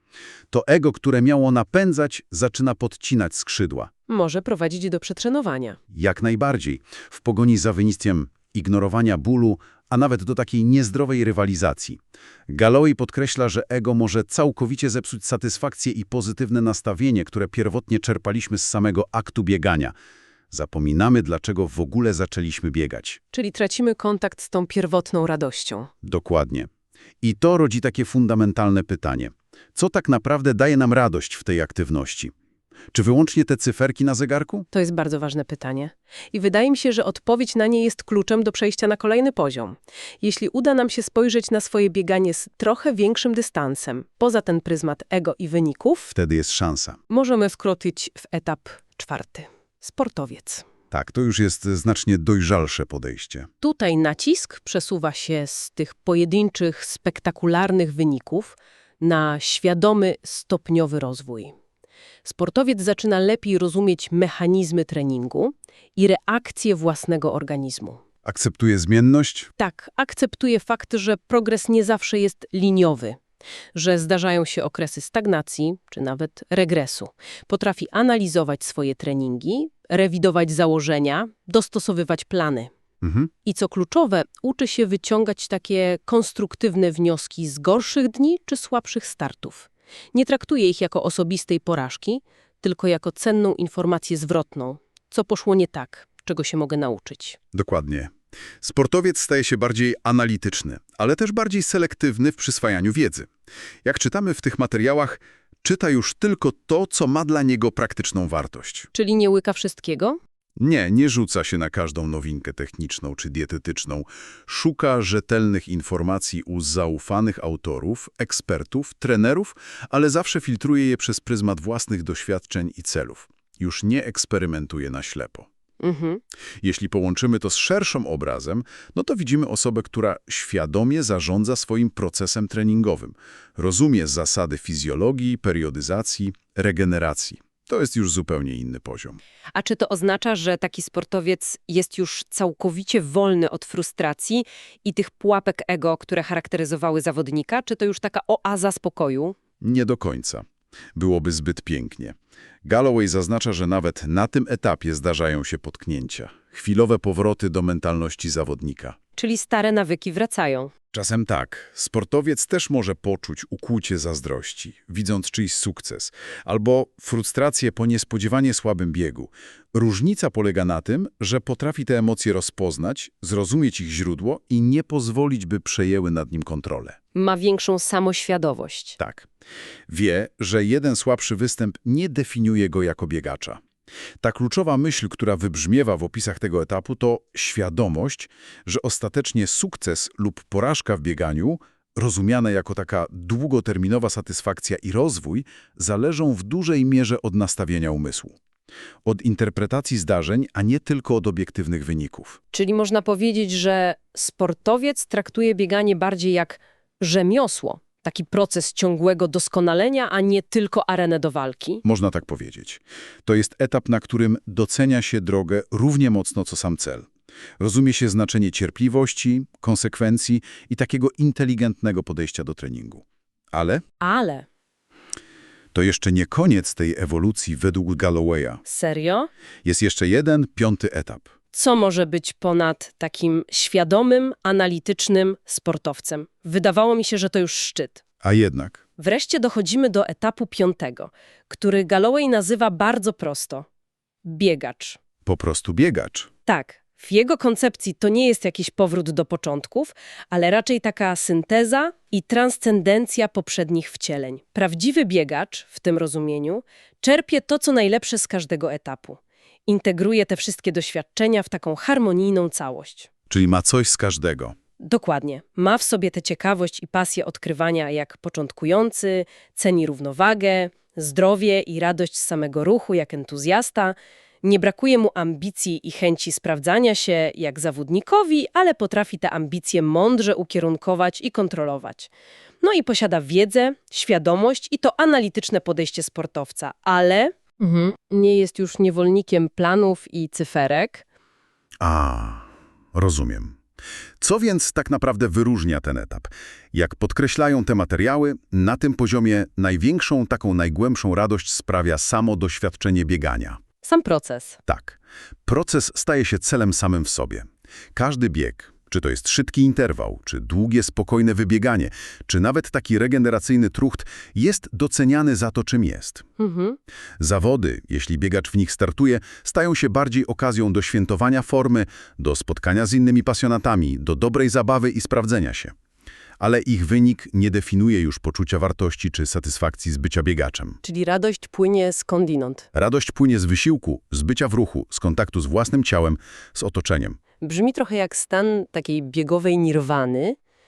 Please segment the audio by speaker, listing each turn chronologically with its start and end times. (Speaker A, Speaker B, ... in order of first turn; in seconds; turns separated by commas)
Speaker A: 0.5-3.9, Speaker B: 4.1-5.8, Speaker A: 5.9-19.9, Speaker A: 20.5-23.2, Speaker B: 23.3-25.9, Speaker A: 26.0-26.7, Speaker A: 27.2-32.3, Speaker A: 32.9-34.7, Speaker B: 34.7-46.1, Speaker A: 46.1-47.0, Speaker B: 47.1-50.6, Speaker A: 50.9-53.5, Speaker B: 53.6-61.5, Speaker B: 62.2-68.0, Speaker A: 68.2-69.5, Speaker B: 69.6-73.2, Speaker B: 73.7-82.7, Speaker A: 83.0-83.3, Speaker B: 83.5-97.4, Speaker A: 97.5-103.3, Speaker A: 103.8-108.9, Speaker B: 108.9-110.2, Speaker A: 110.6-125.5, Speaker B: 125.8-126.2, Speaker A: 126.6-139.2, Speaker B: 139.6-149.4, Speaker A: 149.6-159.0, Speaker B: 159.2-160.7, Speaker A: 160.9-177.0, Speaker B: 177.2-179.0, Speaker A: 179.0-179.3, Speaker A: 179.9-183.6, Speaker A: 184.2-198.3, Speaker A: 199.1-202.4, Speaker B: 202.5-211.8, Speaker A: 211.8-217.1, Speaker A: 217.6-223.8, Speaker B: 224.0-224.5, Speaker A: 225.7-228.6, Speaker B: 228.7-229.3, Speaker A: 229.6-231.3, Speaker B: 231.5-238.0, Speaker A: 238.2-238.8, Speaker B: 239.0-243.7, Speaker B: 244.2-245.0, Speaker A: 245.2-246.3, Speaker B: 246.5-263.1, Speaker A: 263.3-264.6, Speaker B: 264.8-291.1, Speaker A: 291.8-293.6, Speaker A: 294.2-303.6, Speaker B: 303.8-304.6, Speaker A: 304.7-316.3, Speaker B: 316.4-316.8, Speaker A: 317.2-325.7, Speaker A: 326.4-330.8, Speaker B: 330.8-332.7, Speaker A: 332.7-337.2, Speaker B: 337.4-340.4